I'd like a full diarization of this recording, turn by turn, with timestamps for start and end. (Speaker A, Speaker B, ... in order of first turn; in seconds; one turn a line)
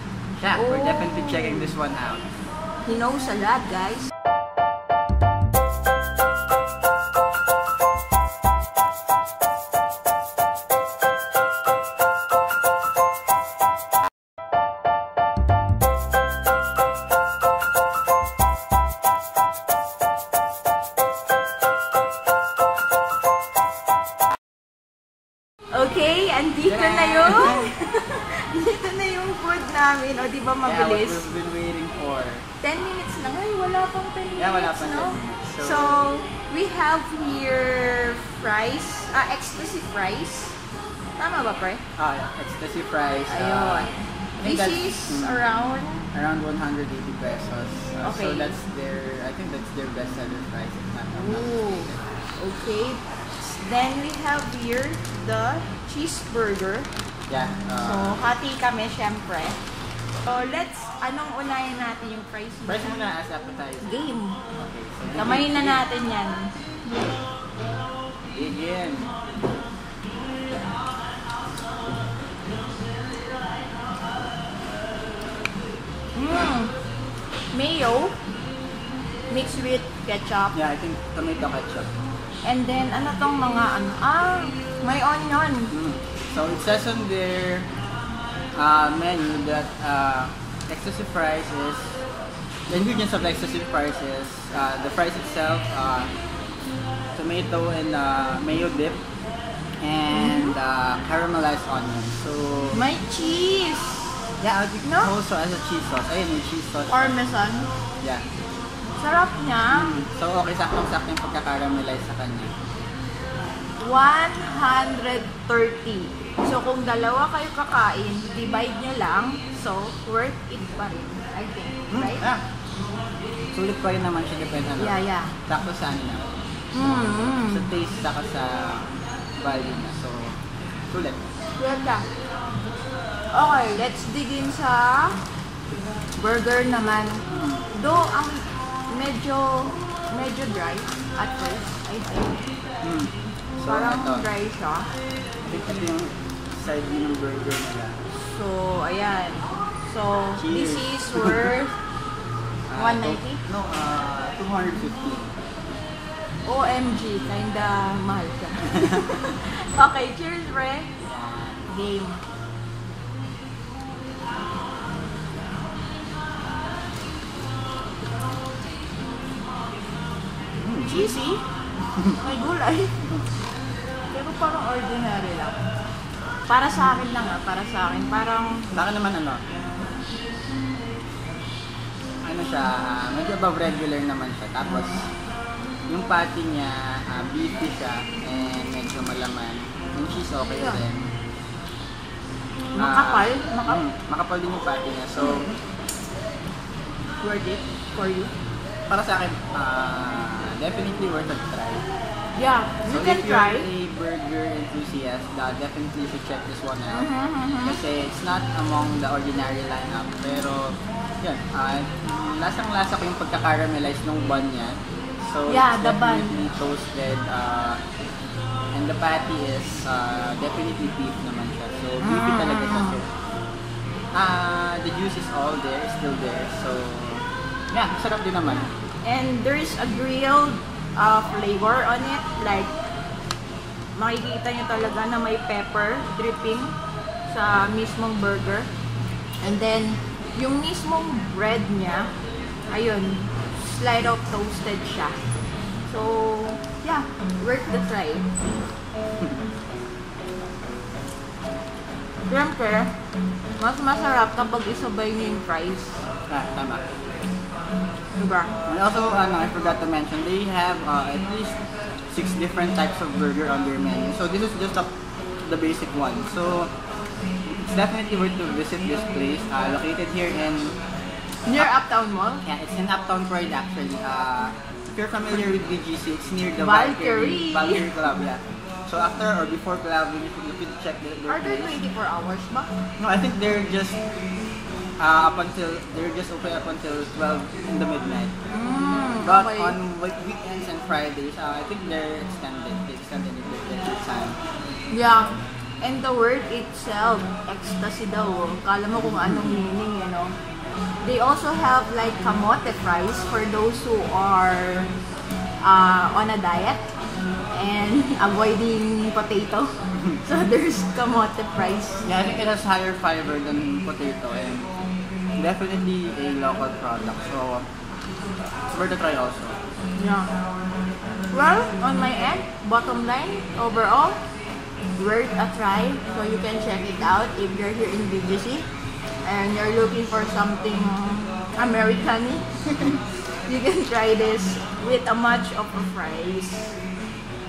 Speaker A: 0.4-2.3
Speaker B: 0.5-1.7
Speaker B: 2.8-4.1
Speaker B: 25.7-31.3
Speaker A: 26.6-27.7
Speaker A: 30.6-32.5
Speaker B: 32.6-40.6
Speaker A: 34.4-36.1
Speaker B: 41.2-41.8
Speaker A: 42.0-45.4
Speaker B: 43.3-46.1
Speaker A: 46.1-52.1
Speaker B: 48.0-48.6
Speaker B: 51.1-56.9
Speaker A: 57.3-58.2
Speaker B: 57.7-59.6
Speaker B: 60.2-63.0
Speaker A: 62.6-64.0
Speaker B: 63.8-64.4
Speaker A: 64.5-65.8
Speaker B: 65.1-66.5
Speaker A: 68.3-69.1
Speaker B: 76.1-76.7
Speaker B: 77.5-78.2
Speaker B: 79.3-80.5
Speaker A: 80.5-81.9
Speaker B: 82.4-85.7
Speaker A: 85.7-87.7
Speaker A: 88.5-92.0
Speaker A: 92.7-96.1
Speaker A: 97.1-99.0
Speaker A: 99.8-102.8
Speaker B: 100.1-100.5
Speaker B: 102.7-104.2
Speaker A: 104.4-107.1
Speaker B: 104.8-105.1
Speaker B: 106.9-107.7
Speaker B: 109.0-109.9
Speaker A: 109.7-112.5
Speaker B: 113.8-122.2
Speaker A: 121.9-122.4
Speaker A: 123.5-130.4
Speaker B: 124.8-125.3
Speaker B: 126.7-127.7
Speaker A: 130.9-131.3
Speaker B: 131.6-132.1
Speaker B: 133.3-135.2
Speaker B: 136.2-142.4
Speaker A: 137.3-137.7
Speaker A: 142.8-144.2
Speaker B: 143.6-144.9
Speaker A: 145.4-148.0
Speaker B: 148.2-151.8
Speaker A: 150.3-151.5
Speaker A: 152.7-155.3
Speaker B: 152.8-153.4
Speaker B: 156.4-160.9
Speaker A: 161.1-161.6
Speaker B: 161.6-162.2
Speaker A: 170.6-171.0
Speaker B: 170.8-171.4
Speaker B: 172.2-173.1
Speaker B: 174.1-175.6
Speaker B: 176.5-178.7
Speaker A: 178.7-179.4
Speaker A: 182.2-185.1
Speaker A: 185.9-191.1
Speaker B: 190.5-190.8
Speaker B: 192.7-193.8
Speaker A: 192.7-195.6
Speaker A: 197.2-197.6
Speaker B: 197.9-198.3
Speaker A: 198.9-201.8
Speaker B: 202.3-203.7
Speaker A: 202.8-207.1
Speaker B: 206.9-207.8
Speaker A: 207.6-217.8
Speaker B: 215.5-216.4
Speaker A: 218.7-223.1
Speaker B: 222.0-223.0
Speaker A: 224.1-228.7
Speaker B: 229.0-232.7
Speaker B: 233.9-236.7
Speaker B: 237.3-238.7
Speaker B: 239.4-242.1
Speaker B: 242.7-245.3
Speaker B: 245.9-248.3
Speaker B: 252.3-252.9
Speaker B: 253.6-256.0
Speaker A: 256.3-256.9
Speaker B: 258.2-258.5
Speaker A: 258.6-261.6
Speaker A: 262.1-264.9
Speaker A: 265.4-266.7
Speaker A: 267.4-270.8
Speaker B: 271.4-272.4
Speaker A: 272.4-281.7
Speaker B: 276.6-277.9
Speaker B: 281.3-282.8
Speaker A: 283.0-284.0
Speaker A: 285.0-288.3
Speaker B: 288.5-289.8
Speaker A: 289.2-294.4
Speaker B: 294.9-300.3
Speaker A: 298.9-299.6
Speaker B: 301.0-304.9
Speaker B: 305.6-306.9
Speaker B: 307.5-312.1
Speaker A: 312.0-314.7
Speaker A: 315.4-317.7
Speaker A: 318.7-319.6
Speaker B: 319.9-320.3
Speaker B: 321.3-324.2
Speaker B: 324.9-328.7
Speaker B: 329.2-336.8